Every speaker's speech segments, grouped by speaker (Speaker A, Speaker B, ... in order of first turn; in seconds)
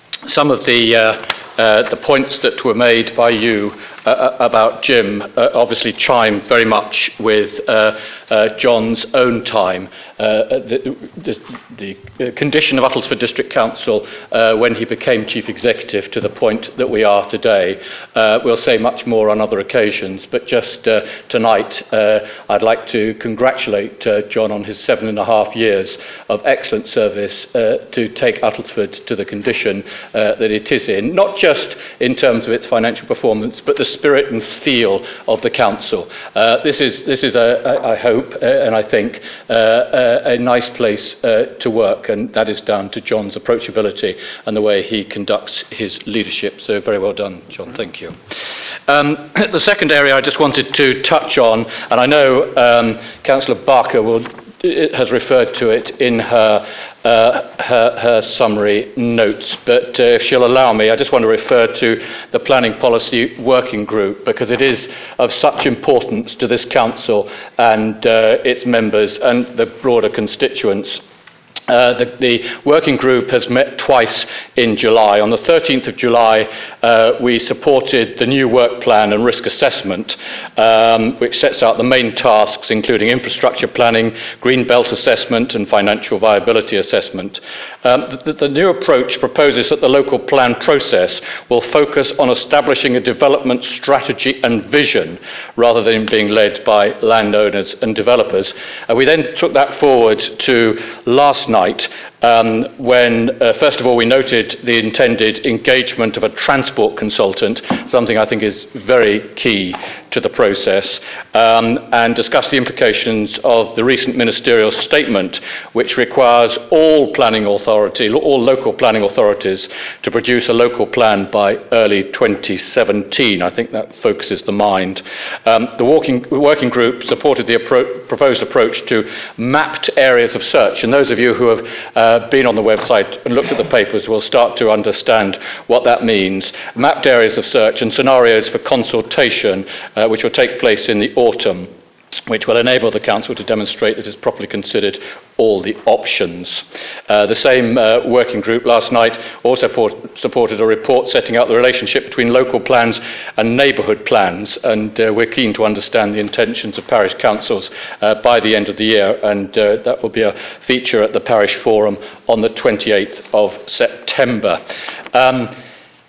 Speaker A: 0.2-48.1, 48.9-71.0, 71.7-141.7, 142.3-164.6, 165.1-165.6